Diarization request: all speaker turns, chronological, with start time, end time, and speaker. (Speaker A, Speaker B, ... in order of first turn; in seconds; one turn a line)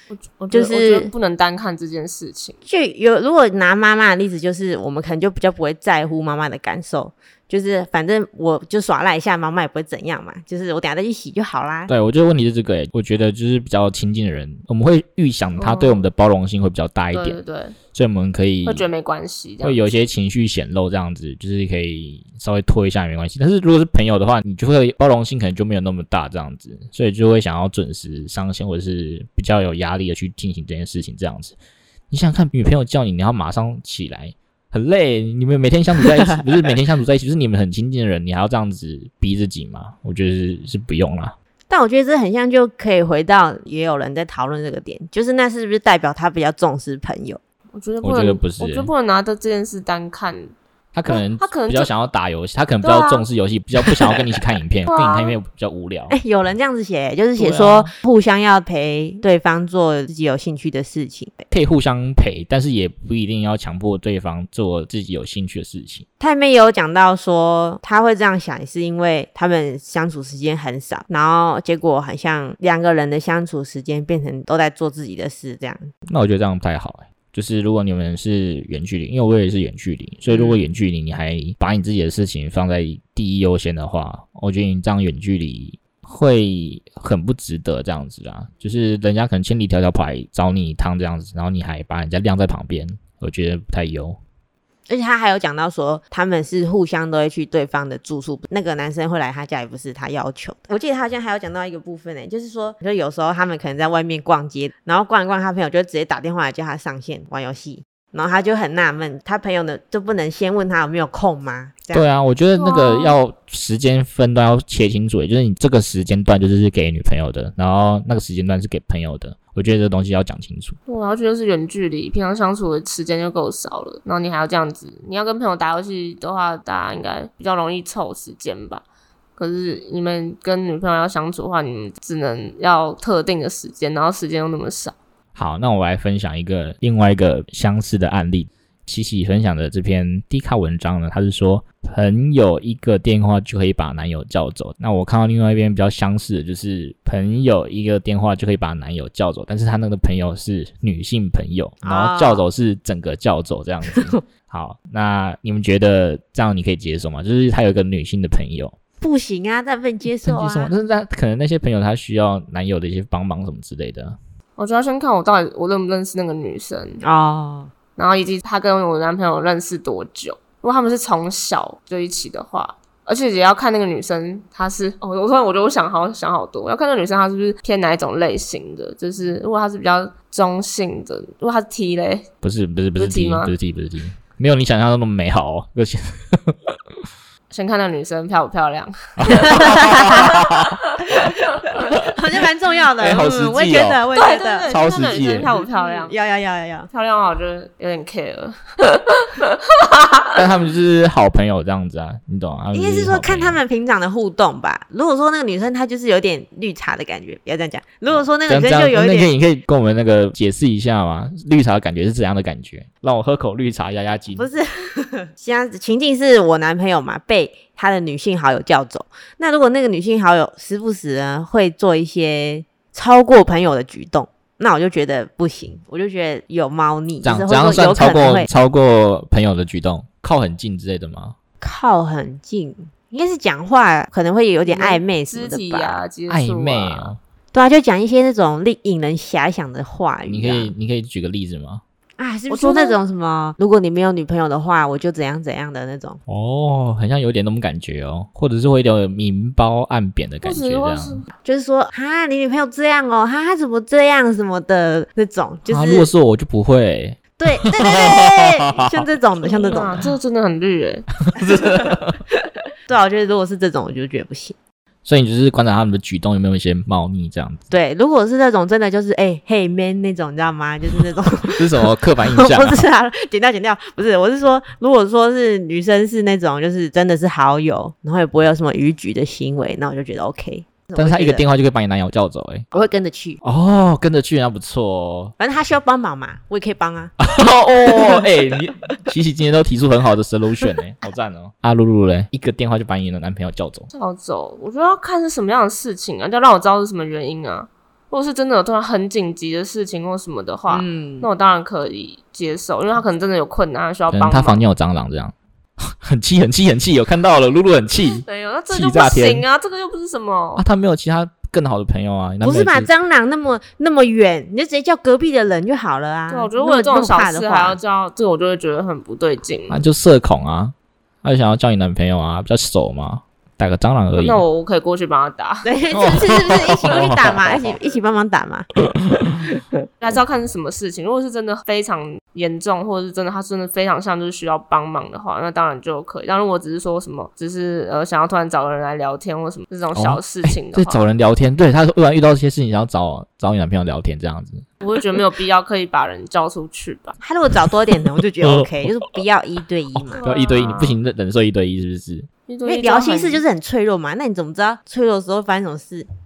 Speaker A: 0.1-2.6
Speaker B: 0.5-1.1
Speaker B: 2.6-11.9
Speaker C: 11.9-17.4
Speaker A: 15.6-16.1
Speaker A: 17.1-17.8
Speaker C: 17.9-18.9
Speaker A: 18.6-19.9
Speaker C: 19.6-31.6
Speaker C: 32.1-41.3
Speaker B: 41.7-47.4
Speaker A: 47.7-50.5
Speaker C: 48.0-48.9
Speaker C: 50.9-56.1
Speaker A: 51.1-51.9
Speaker A: 52.8-53.2
Speaker A: 54.9-55.4
Speaker B: 56.1-61.5
Speaker C: 57.4-57.9
Speaker C: 61.5-66.0
Speaker B: 66.2-75.9
Speaker C: 76.1-94.2
Speaker B: 80.3-80.6
Speaker B: 94.9-112.1
Speaker C: 111.9-120.8
Speaker A: 112.6-113.2
Speaker A: 120.9-128.8
Speaker A: 129.4-134.9
Speaker C: 135.3-158.7
Speaker B: 151.8-152.4
Speaker B: 159.0-160.7
Speaker C: 160.2-164.2
Speaker A: 164.6-167.0
Speaker B: 167.0-167.7
Speaker A: 167.9-182.3
Speaker C: 182.4-186.6
Speaker A: 183.0-183.5
Speaker A: 187.5-191.1
Speaker C: 189.2-190.8
Speaker B: 189.6-190.2
Speaker B: 192.1-196.9
Speaker C: 193.0-194.0
Speaker A: 194.1-196.1
Speaker C: 194.7-195.5
Speaker A: 196.9-200.4
Speaker C: 200.3-203.6
Speaker B: 202.7-209.3
Speaker C: 208.4-214.4
Speaker B: 214.3-228.5
Speaker C: 227.2-231.3
Speaker B: 231.6-236.1
Speaker A: 234.6-237.1
Speaker C: 236.3-237.2
Speaker B: 237.5-240.7
Speaker C: 240.3-241.8
Speaker B: 242.2-246.2
Speaker A: 242.5-243.0
Speaker C: 246.3-251.2
Speaker A: 250.4-251.2
Speaker B: 251.4-256.1
Speaker C: 255.7-258.9
Speaker B: 257.4-260.0
Speaker C: 259.6-259.9
Speaker A: 259.6-261.1
Speaker C: 261.3-262.2
Speaker B: 262.9-264.6
Speaker C: 265.0-267.6
Speaker B: 267.7-281.4
Speaker C: 271.6-272.8
Speaker C: 280.9-282.7
Speaker B: 282.7-283.4
Speaker C: 283.4-285.3
Speaker B: 285.4-287.1
Speaker C: 287.2-293.9
Speaker A: 293.9-304.6
Speaker B: 300.7-301.3
Speaker C: 304.1-309.5
Speaker A: 308.1-310.6
Speaker C: 310.6-312.9
Speaker B: 312.4-317.8
Speaker A: 316.3-319.8
Speaker C: 319.7-324.4
Speaker A: 324.2-325.7
Speaker B: 325.6-328.7
Speaker C: 325.9-327.7
Speaker A: 326.8-328.0
Speaker B: 329.4-329.8
Speaker A: 330.0-341.1
Speaker C: 339.9-344.7
Speaker A: 344.8-347.2
Speaker B: 347.2-350.2
Speaker C: 348.2-348.6
Speaker C: 349.9-352.3
Speaker A: 350.1-351.0
Speaker A: 352.5-353.4
Speaker B: 352.6-356.1